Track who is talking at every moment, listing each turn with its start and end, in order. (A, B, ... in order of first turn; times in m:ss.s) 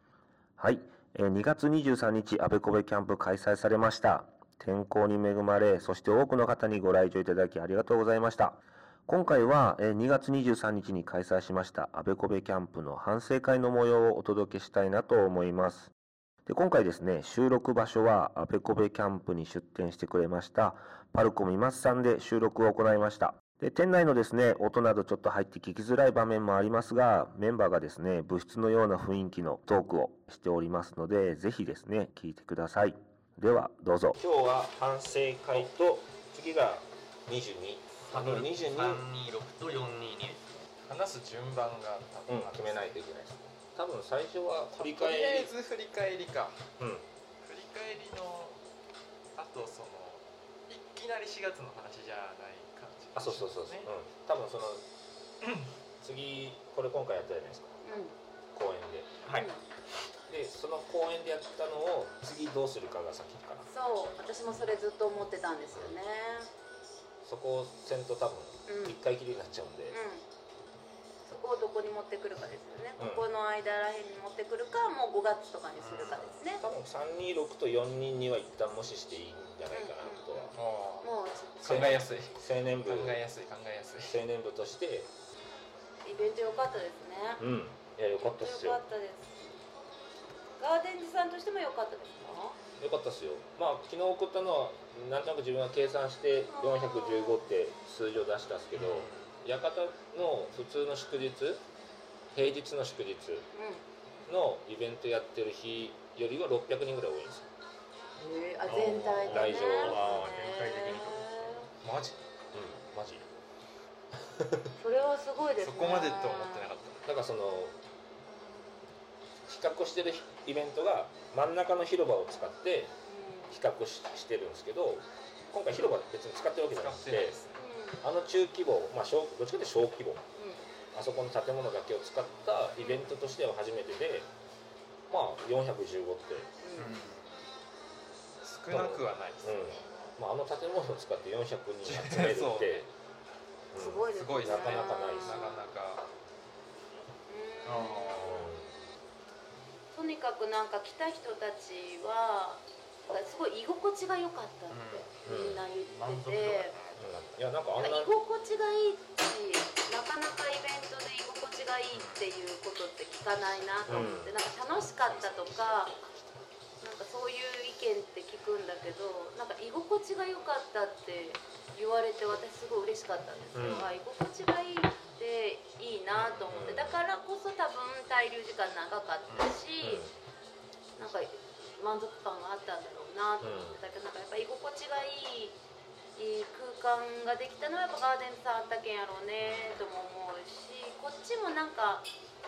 0:00.6-0:15.9 A
0:16.5-0:34.2 A
0:34.2-0:39.0 B
0:38.1-0:40.7 C
0:40.8-0:42.9 D
0:42.3-0:45.5 B
0:44.7-0:46.7 D
0:46.8-0:47.1 B
0:47.4-0:48.6 D
0:49.4-0:53.9 D
0:53.2-0:54.8 B
0:55.4-0:55.8 D
0:56.0-0:57.8 B
0:57.8-0:58.2 E
0:58.5-0:59.1 B
0:59.3-0:59.6 E
1:00.3-1:03.7 B
1:03.7-1:06.5 E
1:07.2-1:10.0 B
1:08.7-1:09.0 E
1:09.9-1:10.2 E
1:11.2-1:16.6 E
1:13.0-1:13.2 B
1:15.8-1:16.2 D
1:16.4-1:20.6 B
1:19.7-1:20.5 E
1:20.6-1:21.1 D
1:21.0-1:22.0 E
1:21.6-1:23.2 B
1:21.6-1:24.2 D
1:24.0-1:25.1 B
1:26.0-1:27.4 E
1:27.4-1:28.8 B
1:28.2-1:29.6 E
1:30.6-1:32.6 E
1:32.8-1:41.6 B
1:36.6-1:37.5 E
1:38.7-1:39.3 C
1:42.3-1:43.5 B
1:43.5-1:43.8 E
1:44.3-1:47.5 B
1:48.2-1:51.7 E
1:48.7-1:51.6 C
1:49.3-1:50.3 B
1:51.8-1:52.2 D
1:52.5-1:53.3 B
1:54.8-1:56.7 E
1:55.6-1:57.0 D
1:57.1-1:57.8 B
1:59.4-2:02.9 B
2:03.1-2:03.6 E
2:03.5-2:07.4 B
2:06.7-2:07.6 D
2:07.6-2:08.0 E
2:08.0-2:10.2 B
2:10.4-2:10.7 E
2:10.9-2:14.3 B
2:12.8-2:13.2 E
2:15.1-2:16.5 B
2:16.6-2:16.9 E
2:16.8-2:17.4 C
2:18.4-2:19.7 D
2:18.7-2:22.9 B
2:21.8-2:22.9 D
2:23.7-2:25.4 B
2:23.7-2:25.6 E
2:24.1-2:26.1 D
2:27.3-2:28.5 E
2:27.6-2:28.5 C
2:28.2-2:28.7 B
2:29.9-2:36.8 E
2:34.7-2:35.1 C
2:35.2-2:35.6 B
2:35.8-2:37.0 C
2:37.0-2:38.1 B
2:37.8-2:45.9 E
2:41.9-2:42.2 C
2:43.9-2:44.3 B
2:46.8-3:00.0 E
2:53.5-2:53.9 B
2:56.2-2:57.0 B
2:59.3-2:59.5 C
2:59.8-3:00.1 B
3:01.0-3:05.6 E
3:03.4-3:03.8 B
3:06.2-3:12.1 E
3:09.4-3:09.8 C